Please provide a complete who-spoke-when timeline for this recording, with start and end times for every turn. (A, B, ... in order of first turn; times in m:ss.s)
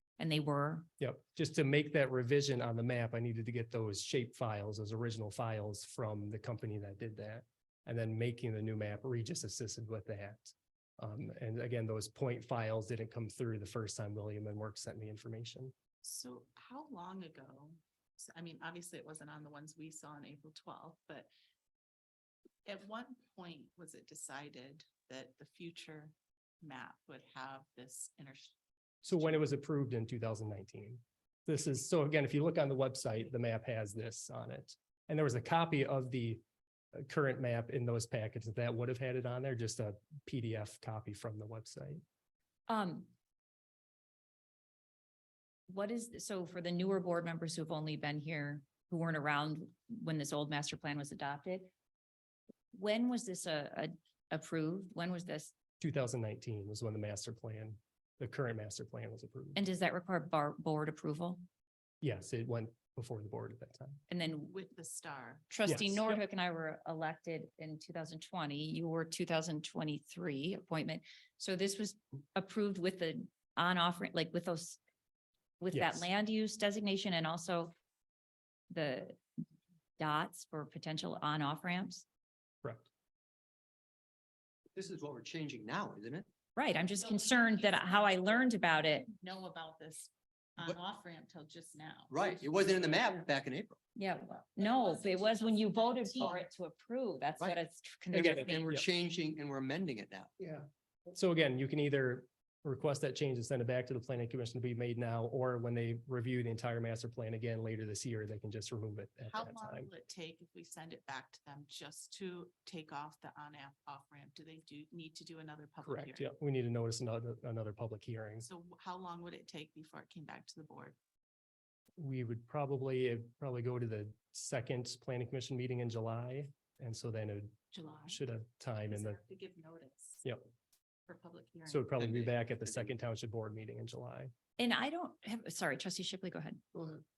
0:00.2-0:00.9 A
0:01.0-0:15.7 B
0:16.0-0:21.3 C
0:22.7-0:28.6 C
0:29.0-0:36.4 B
0:29.1-0:29.4 C
0:37.0-0:42.0 B
0:42.7-0:43.1 A
0:45.7-0:51.7 A
0:52.7-0:55.5 A
0:55.8-0:59.6 B
0:59.6-1:01.4 A
1:02.0-1:04.0 B
1:04.1-1:04.5 A
1:04.4-1:05.9 C
1:05.5-1:14.8 A
1:05.7-1:06.2 B
1:15.6-1:17.7 A
1:15.7-1:16.1 B
1:18.7-1:19.2 A
1:20.0-1:22.0 A
1:24.7-1:26.3 D
1:26.6-1:29.1 A
1:27.0-1:28.5 C
1:29.0-1:32.4 C
1:32.1-1:33.8 D
1:34.0-1:38.6 A
1:34.6-1:36.4 C
1:38.1-1:40.3 D
1:40.4-1:49.9 B
1:49.3-1:56.3 C
1:55.8-1:58.5 B
1:58.5-2:01.0 C
2:02.0-2:09.2 B
2:07.7-2:08.2 C
2:08.9-2:10.2 C
2:11.1-2:12.3 C
2:11.7-2:14.3 B
2:14.6-2:16.6 A
2:16.7-2:17.0 B